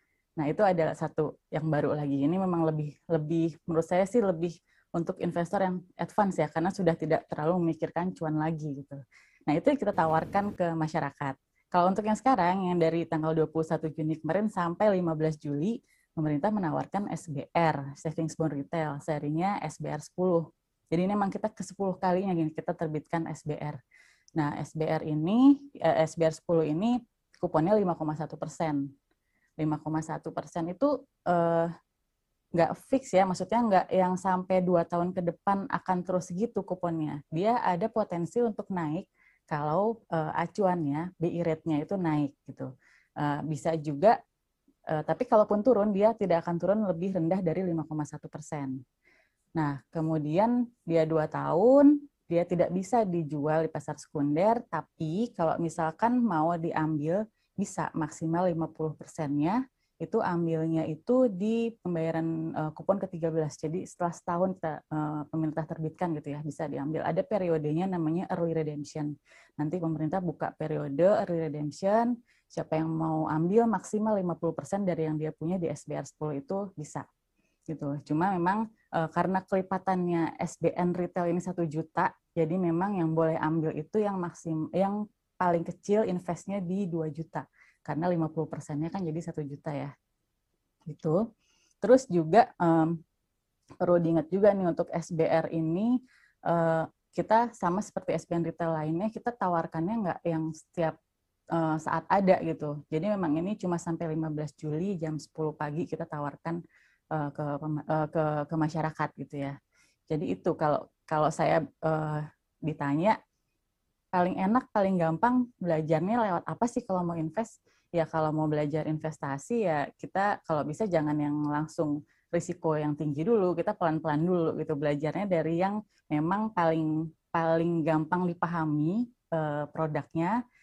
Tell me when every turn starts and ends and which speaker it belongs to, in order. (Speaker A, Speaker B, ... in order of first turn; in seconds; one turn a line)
Speaker A: 0.4-23.8
Speaker A: 24.4-28.9
Speaker A: 29.6-31.7
Speaker A: 32.5-42.7
Speaker A: 43.2-44.1
Speaker A: 44.9-48.8
Speaker A: 49.6-77.0
Speaker A: 77.7-89.9
Speaker A: 90.9-91.2
Speaker A: 91.8-93.0
Speaker A: 93.8-95.9
Speaker A: 96.5-101.0
Speaker A: 101.5-106.6
Speaker A: 107.1-109.5
Speaker A: 110.1-113.2
Speaker A: 114.1-130.3